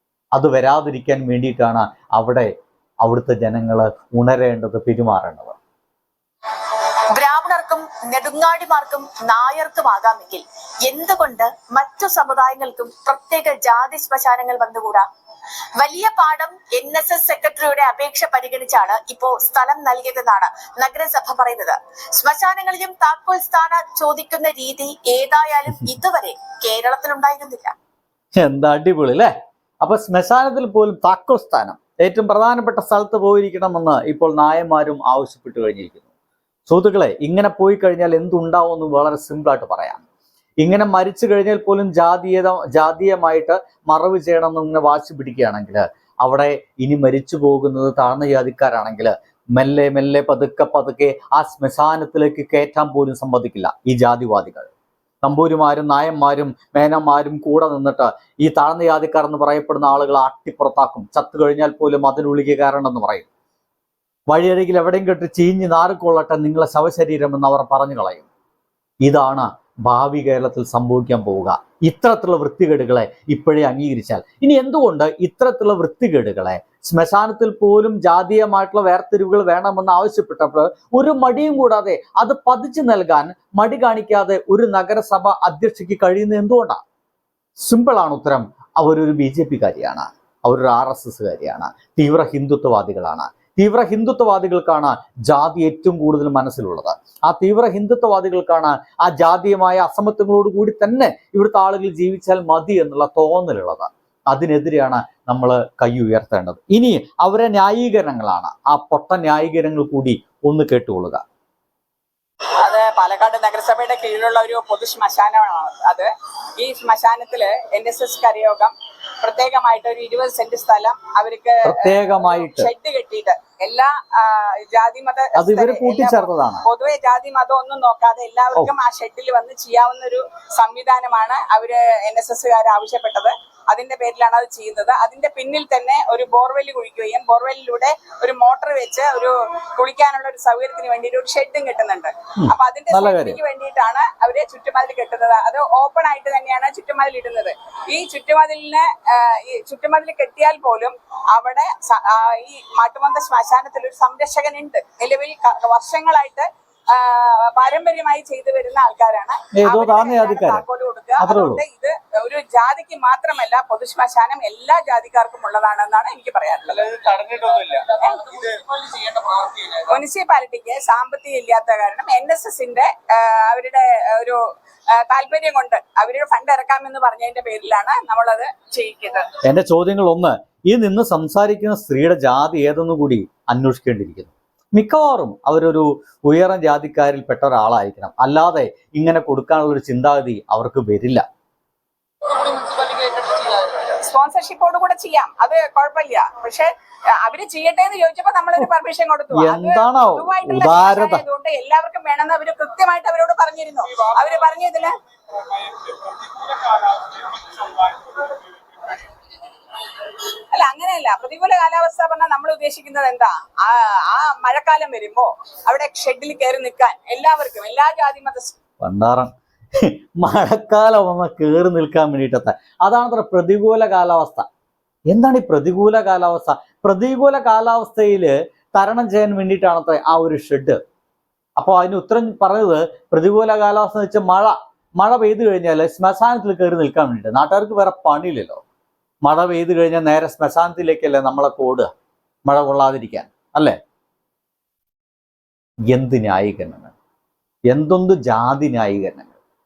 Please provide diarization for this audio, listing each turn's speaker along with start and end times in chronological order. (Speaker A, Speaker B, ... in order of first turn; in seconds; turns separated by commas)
Speaker A: 0.3-2.5, Speaker A: 3.0-5.6, Speaker B: 7.1-15.1, Speaker B: 15.8-27.7, Speaker A: 28.4-36.0, Speaker A: 36.7-40.0, Speaker A: 40.6-54.7, Speaker A: 55.2-63.3, Speaker A: 64.3-68.3, Speaker A: 69.0-86.8, Speaker A: 87.6-111.2, Speaker C: 112.6-167.0, Speaker A: 121.6-122.7, Speaker A: 125.3-126.7, Speaker A: 142.4-143.4, Speaker A: 159.6-160.6, Speaker A: 161.2-161.6, Speaker A: 166.9-167.9, Speaker C: 167.9-168.6, Speaker A: 168.7-169.7, Speaker C: 169.9-174.4, Speaker C: 174.9-179.3, Speaker A: 179.4-191.2, Speaker C: 192.4-196.7, Speaker C: 197.2-204.9, Speaker A: 199.3-201.2, Speaker C: 205.5-208.2, Speaker C: 210.5-218.6, Speaker A: 218.8-224.5, Speaker A: 225.1-230.8, Speaker A: 231.6-238.6, Speaker A: 239.2-241.9, Speaker A: 242.5-243.8, Speaker A: 245.9-246.9, Speaker A: 247.7-249.3